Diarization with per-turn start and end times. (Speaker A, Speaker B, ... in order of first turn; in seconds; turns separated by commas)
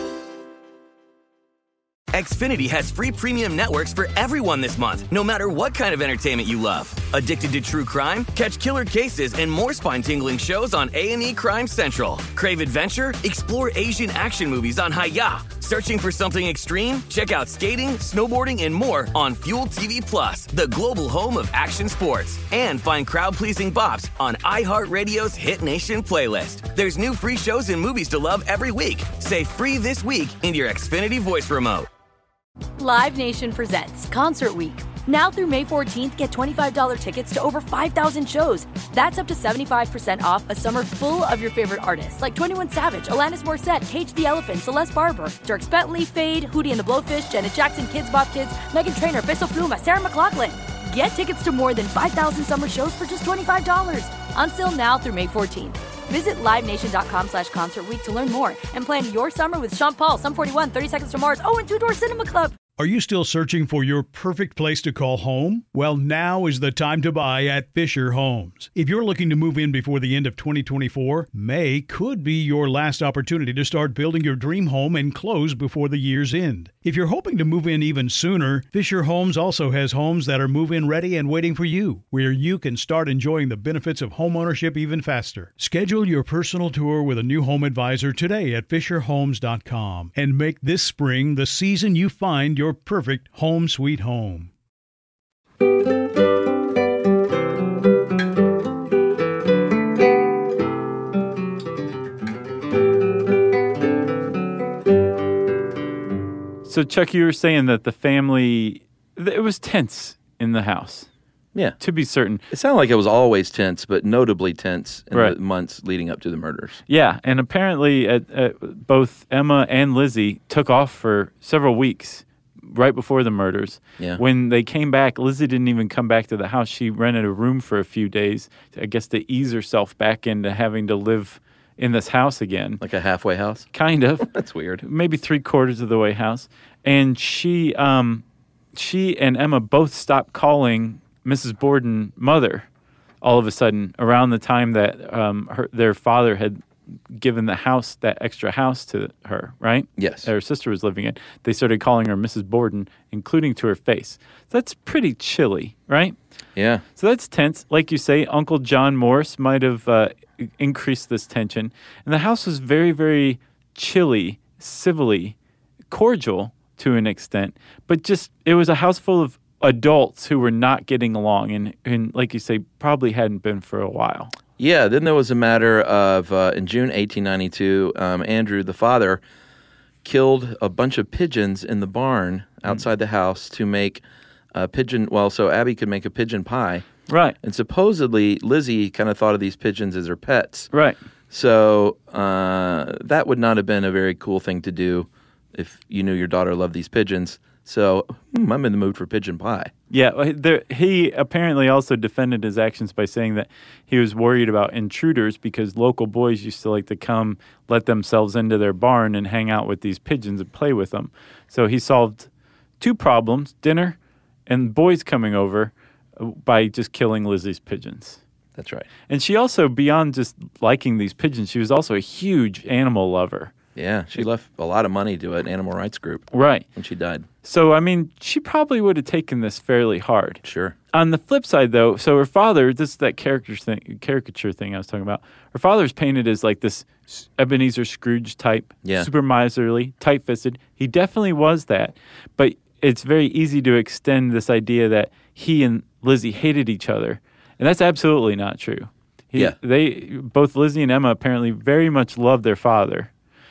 Speaker A: 2.1-31.9, Speaker B: 32.8-62.5, Speaker C: 62.8-94.5, Speaker D: 106.7-111.1, Speaker D: 111.8-112.4, Speaker E: 112.5-116.8, Speaker D: 116.9-132.8, Speaker E: 132.8-133.7, Speaker D: 133.7-134.3, Speaker E: 134.3-134.8, Speaker D: 134.8-138.2, Speaker D: 138.8-142.7, Speaker D: 143.2-146.6, Speaker D: 147.1-156.2, Speaker E: 150.0-150.3, Speaker E: 156.6-156.8, Speaker D: 157.0-165.3, Speaker D: 165.9-174.3, Speaker E: 174.6-179.2, Speaker E: 180.0-184.0, Speaker E: 184.5-186.9, Speaker D: 187.1-187.4, Speaker E: 187.4-190.7, Speaker D: 190.7-191.0, Speaker E: 191.3-199.7, Speaker D: 199.9-212.3, Speaker D: 212.8-214.0, Speaker D: 214.5-218.2, Speaker E: 218.6-218.9, Speaker D: 219.1-223.5, Speaker E: 223.8-227.3, Speaker D: 226.3-226.7, Speaker D: 227.4-230.4, Speaker E: 230.4-230.8, Speaker D: 230.9-253.1